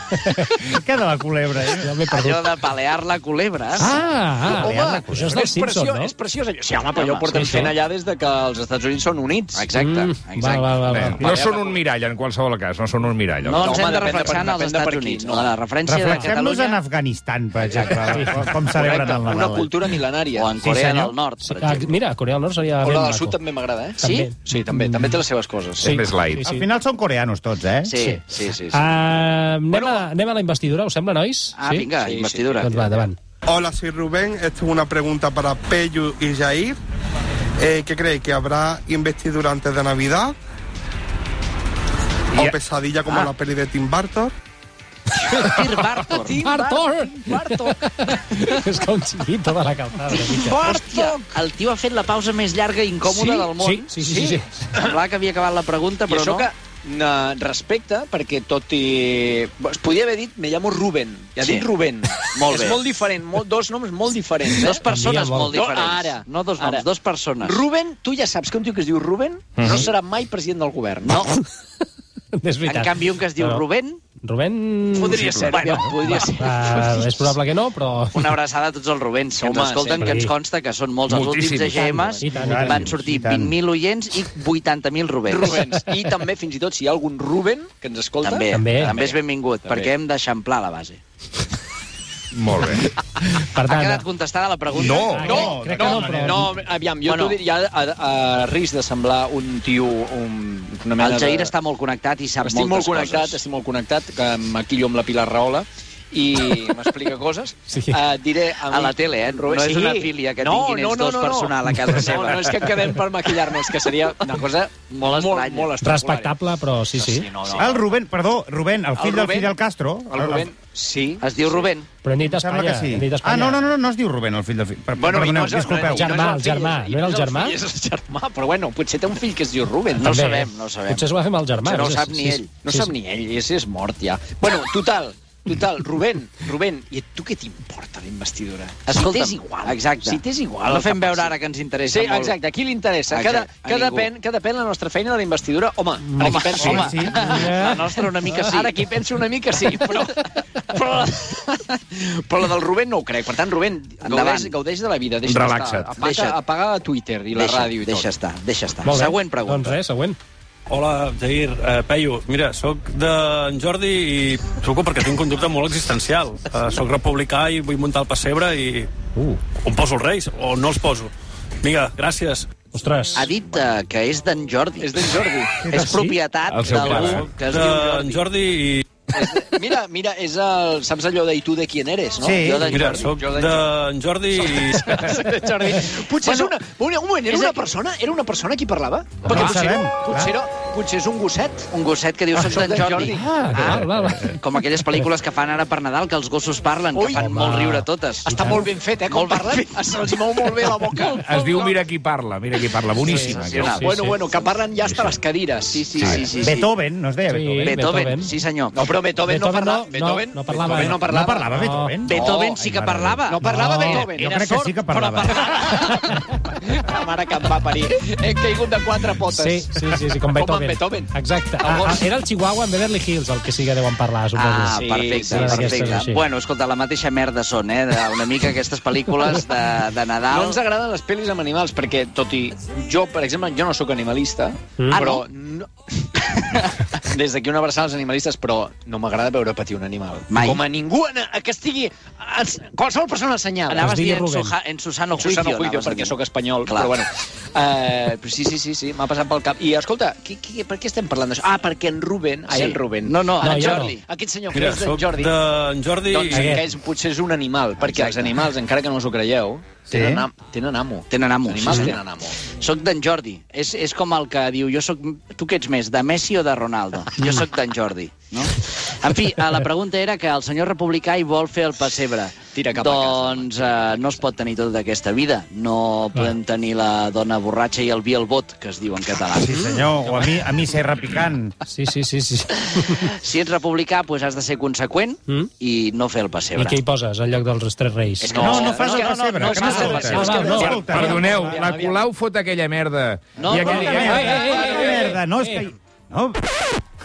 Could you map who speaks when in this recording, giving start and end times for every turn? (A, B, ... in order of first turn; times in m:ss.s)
0:00.2-0:00.6 A
0:00.7-0:02.0 B
0:01.7-0:02.4 A
0:02.1-0:03.9 C
0:03.8-0:06.1 A
0:04.4-0:09.6 D
0:04.5-0:05.5 B
0:07.0-0:07.4 C
0:07.3-0:07.7 A
0:09.6-0:10.9 C
0:09.8-0:11.3 A
0:10.9-0:13.8 E
0:11.1-0:11.4 B
0:11.3-0:11.8 D
0:13.4-0:16.8 C
0:13.5-0:15.6 D
0:15.9-0:19.8 B
0:17.7-0:18.2 C
0:18.0-0:18.4 A
0:18.7-0:20.5 D
0:20.4-0:21.9 C
0:21.4-0:23.4 A
0:22.8-0:26.0 D
0:24.0-0:25.1 A
0:24.0-0:24.3 C
0:25.8-0:26.7 A
0:25.8-0:26.4 E
0:26.4-0:28.0 B
0:27.8-0:28.8 C
0:28.0-0:31.9 A
0:29.7-0:30.1 D
0:31.6-0:32.9 C
0:32.0-0:32.7 D
0:32.6-0:33.2 A
0:33.5-0:36.8 F
0:37.6-0:40.4 F
0:42.3-0:44.3 F
0:45.2-0:45.6 A
0:45.4-0:46.4 C
0:45.8-0:47.8 D
0:46.4-0:50.8 A
0:50.3-0:53.9 C
0:50.6-0:51.2 D
0:53.0-0:54.9 D
0:53.6-0:54.5 A
0:54.8-0:56.5 C
0:56.1-1:04.8 D
1:01.4-1:01.7 C
1:02.2-1:02.8 C
1:04.6-1:07.6 C
1:04.9-1:05.6 A
1:05.5-1:06.9 D
1:07.4-1:11.2 D
1:09.6-1:09.9 E
1:11.0-1:11.4 C
1:12.4-1:13.6 A
1:12.7-1:14.0 C
1:14.2-1:18.4 A
1:14.9-1:17.3 D
1:15.4-1:16.4 C
1:18.1-1:25.6 C
1:19.4-1:20.2 D
1:20.0-1:20.3 A
1:21.1-1:22.0 E
1:21.9-1:23.5 B
1:22.2-1:22.9 A
1:25.3-1:29.9 D
1:28.2-1:31.0 C
1:28.5-1:29.0 A
1:32.3-1:32.8 E
1:33.5-1:34.0 A
1:33.6-1:35.4 C
1:34.7-1:35.4 E
1:34.9-1:36.5 A
1:35.2-1:36.5 B
1:35.2-1:41.5 D
1:37.0-1:37.4 C
1:41.0-1:43.4 C
1:42.4-1:56.3 D
1:47.7-1:48.0 A
1:48.7-1:52.9 C
1:54.9-1:55.7 C
1:55.8-1:57.3 A
1:56.9-1:57.9 D
1:57.6-2:00.5 B
1:59.0-1:59.6 D
2:00.1-2:01.6 D
2:01.2-2:01.9 C
2:02.0-2:03.7 A
2:02.2-2:06.1 B
2:05.0-2:10.2 D
2:05.9-2:07.6 A
2:10.0-2:12.9 A
2:10.0-2:11.1 C
2:11.6-2:12.5 C
2:12.6-2:21.4 D
2:18.9-2:22.4 C
2:21.9-2:38.1 D
2:23.1-2:24.1 C
2:26.2-2:28.8 C
2:26.6-2:27.2 B
2:27.2-2:27.8 A
2:34.0-2:34.6 C
2:35.3-2:36.0 E
2:36.0-2:36.4 C
2:37.3-2:39.8 C
2:38.8-2:40.2 A
2:40.7-2:48.9 G
2:49.6-2:52.5 G
2:52.7-2:53.3 A
2:53.2-2:55.2 C
2:54.8-2:55.6 D
2:55.6-2:56.2 B
2:55.7-2:58.4 C
2:56.5-2:57.4 E
2:56.7-2:58.8 G
2:59.1-3:03.8 D
3:02.2-3:02.8 B
3:02.4-3:03.2 C
3:02.7-3:05.1 G
3:04.3-3:11.7 D
3:06.2-3:06.5 C
3:07.3-3:07.6 C
3:09.2-3:09.5 C
3:09.3-3:10.3 B
3:11.7-3:13.2 C
3:12.4-3:13.7 D
3:13.2-3:14.4 A
3:14.2-3:18.4 C
3:17.0-3:17.4 D
3:17.1-3:18.7 A
3:18.3-3:21.8 D
3:19.1-3:20.3 C
3:21.2-3:23.9 E
3:23.0-3:23.9 C
3:23.0-3:24.2 A
3:23.6-3:26.0 D
3:25.7-3:26.7 C
3:26.0-3:26.3 E
3:26.3-3:27.7 B
3:27.3-3:28.4 A
3:27.6-3:28.8 C
3:28.7-3:31.5 D
3:29.2-3:32.0 A
3:30.7-3:36.2 B
3:32.0-3:34.0 C
3:32.1-3:32.6 D
3:33.3-3:42.0 D
3:39.3-3:44.7 A
3:44.4-3:50.6 C
3:44.7-3:46.0 D
3:45.3-3:46.2 A
3:50.3-3:55.7 D
3:54.9-3:55.3 C
3:57.0-4:03.9 D
4:00.3-4:00.6 C
4:03.7-4:06.9 C
4:03.8-4:04.6 A
4:05.2-4:15.5 D
4:12.5-4:14.0 C
4:13.4-4:14.0 A
4:14.5-4:16.5 G
4:16.0-4:22.4 D
4:16.3-4:16.6 A
4:17.8-4:18.3 C
4:19.9-4:20.3 B
4:21.1-4:39.5 C
4:32.5-4:34.2 D
4:39.4-4:41.6 B
4:39.5-4:39.9 A
4:41.7-4:43.1 A
4:43.0-4:46.8 C
4:46.6-4:48.4 A
4:48.2-4:50.8 C
4:48.2-4:52.1 D
4:48.4-4:51.6 B
4:49.3-4:54.0 E
4:50.1-4:50.8 A
4:53.4-4:54.6 C
4:53.6-4:56.4 B
4:53.6-4:55.7 A